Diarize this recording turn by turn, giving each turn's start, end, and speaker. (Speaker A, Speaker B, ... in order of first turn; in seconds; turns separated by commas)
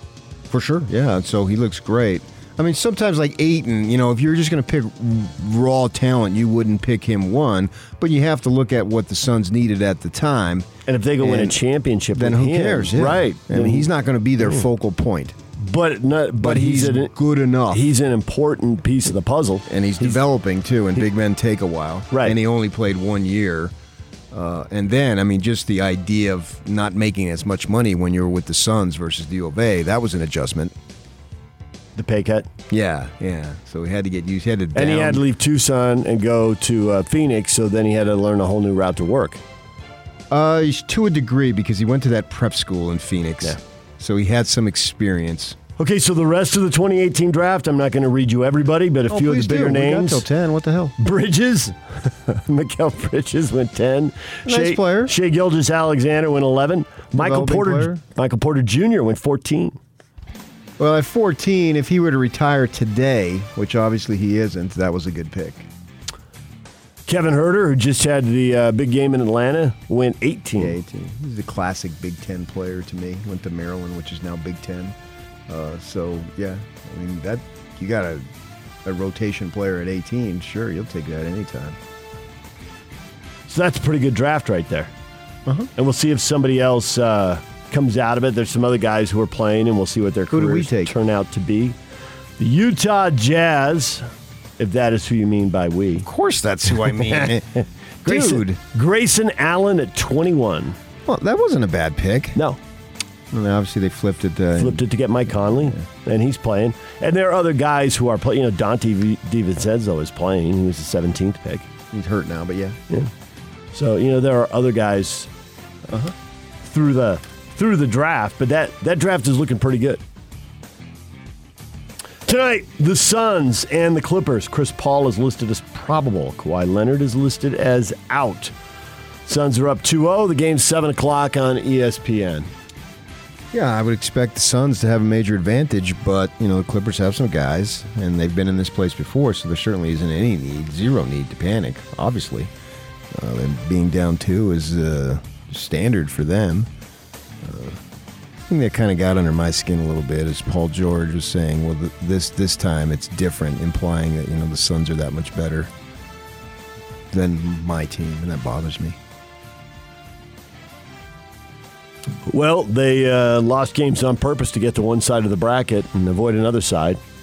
Speaker A: 0.5-10.7, Speaker B: 10.8-13.9, Speaker A: 11.2-11.6, Speaker A: 12.1-15.3, Speaker B: 15.6-17.1, Speaker A: 16.4-17.8, Speaker B: 17.7-20.2, Speaker A: 19.7-23.7, Speaker B: 22.1-22.4, Speaker A: 24.3-30.7, Speaker B: 31.9-32.5, Speaker A: 32.7-35.2, Speaker B: 34.7-39.4, Speaker A: 40.3-45.6, Speaker B: 45.8-50.2, Speaker A: 49.1-50.9, Speaker B: 51.0-59.8, Speaker A: 54.5-55.1, Speaker A: 57.1-58.0, Speaker A: 60.8-65.7, Speaker B: 67.1-70.8, Speaker A: 70.6-75.0, Speaker A: 75.5-78.3, Speaker A: 78.8-81.8, Speaker B: 83.5-84.9, Speaker A: 85.5-85.7, Speaker B: 85.8-91.8, Speaker A: 90.3-90.9, Speaker B: 92.4-94.0, Speaker B: 94.6-96.1, Speaker A: 96.0-98.6, Speaker B: 97.0-97.3, Speaker B: 98.0-100.8, Speaker A: 101.0-102.4, Speaker A: 103.3-104.8, Speaker B: 104.5-111.7, Speaker A: 105.4-105.8, Speaker A: 111.9-112.8, Speaker B: 113.7-115.3, Speaker A: 115.9-116.1, Speaker B: 116.6-120.0, Speaker B: 122.2-128.5, Speaker B: 129.2-132.5, Speaker A: 133.5-142.5, Speaker A: 143.1-146.7, Speaker A: 147.4-147.8, Speaker A: 148.5-155.7, Speaker A: 157.1-159.0, Speaker B: 162.2-167.0